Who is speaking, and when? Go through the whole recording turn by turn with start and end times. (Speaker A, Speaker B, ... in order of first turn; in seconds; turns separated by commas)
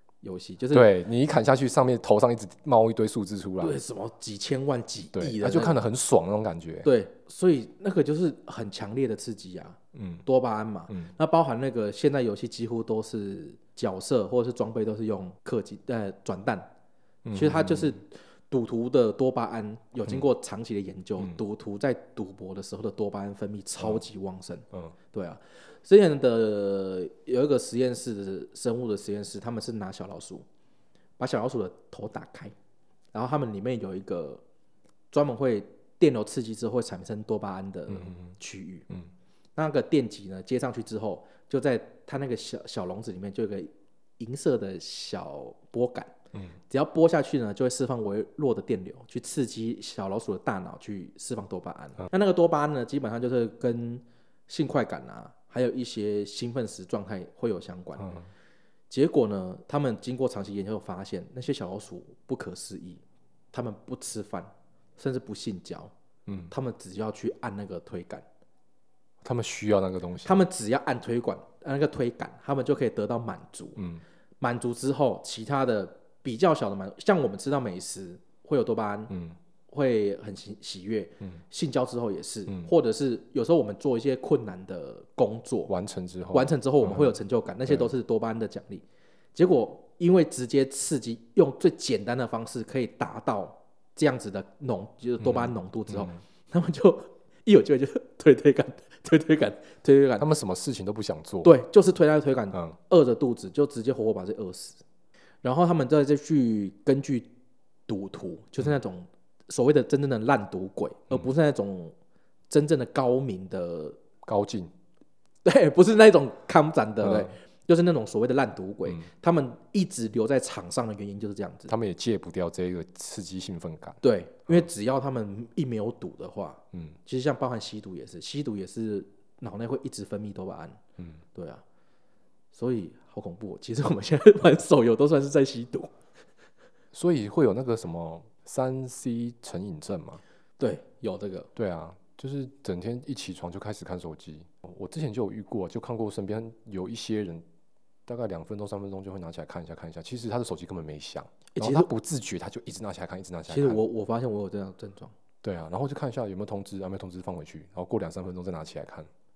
Speaker A: 0.2-0.9, Speaker B: 0.7-3.8, Speaker A: 3.6-5.8, Speaker B: 5.1-6.9, Speaker A: 6.8-16.7, Speaker B: 9.9-10.2, Speaker B: 17.2-18.0, Speaker A: 17.3-30.4, Speaker A: 31.2-32.5, Speaker A: 33.1-34.4, Speaker A: 35.1-38.9, Speaker B: 37.9-38.3, Speaker A: 39.6-46.1, Speaker A: 46.7-58.1, Speaker B: 58.0-58.3, Speaker A: 58.9-65.9, Speaker B: 66.3-66.5, Speaker A: 66.5-68.3, Speaker B: 69.2-70.4, Speaker A: 70.2-73.8, Speaker B: 73.8-74.0, Speaker A: 74.4-79.1, Speaker B: 79.1-79.4, Speaker A: 79.7-85.7, Speaker B: 85.7-87.9, Speaker A: 86.3-100.3, Speaker B: 95.2-96.2, Speaker B: 100.2-101.6, Speaker A: 101.4-104.8, Speaker A: 105.4-107.3, Speaker A: 107.9-112.0, Speaker A: 112.5-114.0, Speaker B: 114.2-114.7, Speaker A: 115.4-121.7, Speaker B: 117.0-117.3, Speaker B: 121.7-124.7, Speaker A: 124.0-130.8, Speaker A: 131.3-131.6, Speaker A: 132.5-136.0, Speaker B: 136.9-140.2, Speaker A: 140.6-141.5, Speaker B: 141.6-147.4, Speaker B: 148.1-153.8, Speaker A: 151.6-151.9, Speaker A: 153.5-155.2, Speaker B: 155.4-159.1